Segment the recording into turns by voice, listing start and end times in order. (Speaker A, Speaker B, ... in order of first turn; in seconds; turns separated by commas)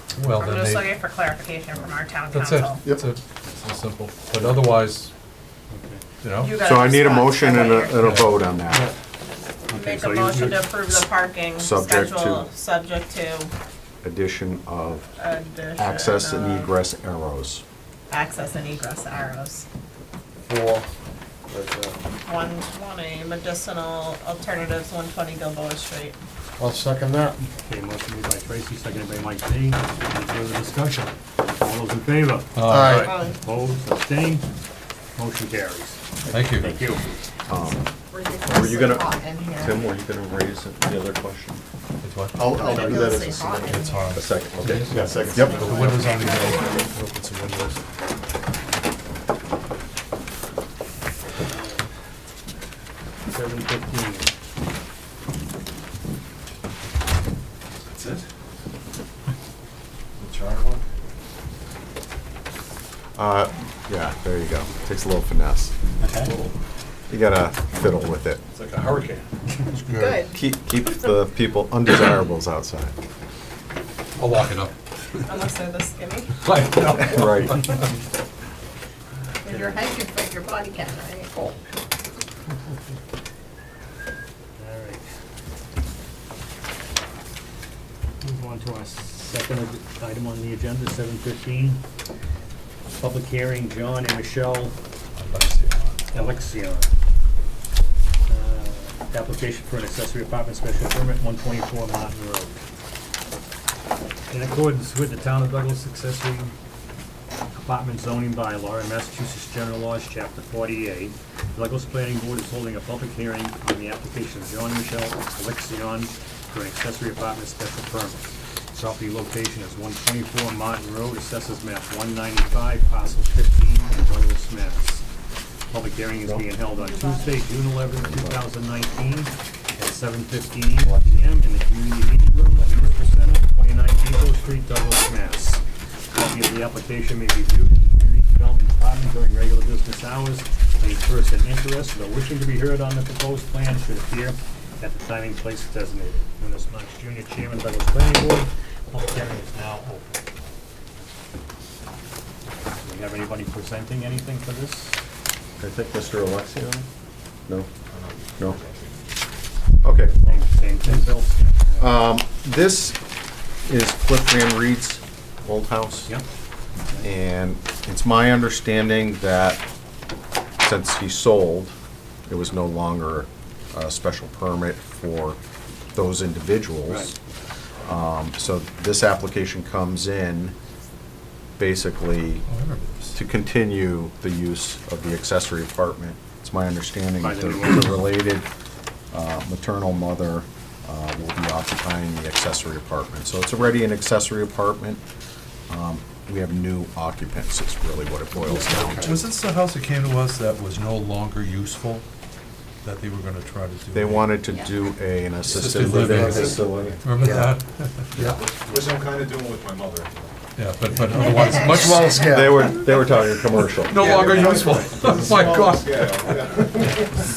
Speaker A: 0.1-0.9, Speaker B: 0.3-2.9, Speaker A: 2.3-5.1, Speaker C: 5.7-6.0, Speaker A: 6.2-6.6, Speaker B: 6.4-8.3, Speaker D: 6.6-8.9, Speaker A: 8.0-8.4, Speaker C: 9.7-10.8, Speaker B: 9.7-13.5, Speaker D: 11.6-12.5, Speaker D: 14.0-15.1, Speaker B: 15.2-16.7, Speaker D: 15.8-17.6, Speaker B: 18.1-19.7, Speaker E: 20.5-20.9, Speaker E: 21.5-22.1, Speaker B: 22.2-26.2, Speaker E: 26.6-27.4, Speaker C: 27.6-34.5, Speaker A: 32.5-33.1, Speaker E: 32.7-33.1, Speaker B: 33.0-33.4, Speaker C: 35.1-37.2, Speaker A: 36.3-36.8, Speaker D: 37.5-37.9, Speaker B: 38.1-39.9, Speaker D: 38.4-41.6, Speaker A: 42.0-42.6, Speaker E: 42.4-43.7, Speaker B: 42.5-44.2, Speaker A: 43.6-47.8, Speaker D: 44.1-44.9, Speaker C: 44.9-45.4, Speaker E: 44.9-46.0, Speaker B: 45.4-46.9, Speaker C: 51.4-51.9, Speaker C: 53.3-54.3, Speaker A: 57.9-58.2, Speaker F: 60.2-60.8, Speaker D: 63.1-65.7, Speaker C: 66.0-66.3, Speaker D: 67.1-68.4, Speaker A: 68.5-70.2, Speaker B: 70.0-70.4, Speaker D: 70.3-73.0, Speaker A: 74.2-75.4, Speaker B: 75.2-76.4, Speaker A: 76.4-77.8, Speaker D: 76.9-77.7, Speaker B: 79.4-81.3, Speaker C: 79.5-79.9, Speaker C: 84.6-85.0, Speaker C: 88.2-91.8, Speaker C: 93.0-94.8, Speaker A: 95.2-96.1, Speaker C: 96.1-96.9, Speaker C: 98.3-102.6, Speaker C: 104.3-106.5, Speaker C: 107.5-125.0, Speaker C: 125.7-135.6, Speaker B: 126.8-127.3, Speaker D: 127.9-128.5, Speaker D: 130.8-131.1, Speaker C: 136.1-150.2, Speaker C: 152.8-155.0, Speaker D: 155.6-156.9, Speaker F: 157.9-159.0, Speaker D: 159.8-160.4, Speaker C: 160.1-162.0, Speaker D: 161.8-163.0, Speaker D: 163.7-166.1, Speaker D: 167.0-169.6, Speaker D: 170.6-171.7, Speaker D: 172.3-175.4, Speaker D: 175.9-177.2, Speaker C: 176.9-177.1, Speaker D: 177.8-180.5, Speaker D: 181.6-182.4, Speaker A: 182.5-183.2, Speaker D: 183.1-188.5, Speaker C: 187.2-188.1, Speaker D: 189.1-195.0, Speaker D: 195.7-199.2, Speaker A: 198.5-202.1, Speaker E: 198.5-199.0, Speaker A: 202.8-204.4, Speaker D: 203.9-207.2, Speaker A: 205.4-208.4, Speaker E: 205.9-206.5, Speaker F: 208.1-210.3, Speaker A: 210.6-212.4, Speaker B: 211.4-212.3, Speaker E: 211.9-212.4, Speaker D: 212.2-214.8, Speaker A: 213.5-216.9, Speaker C: 214.0-215.2, Speaker F: 215.0-217.3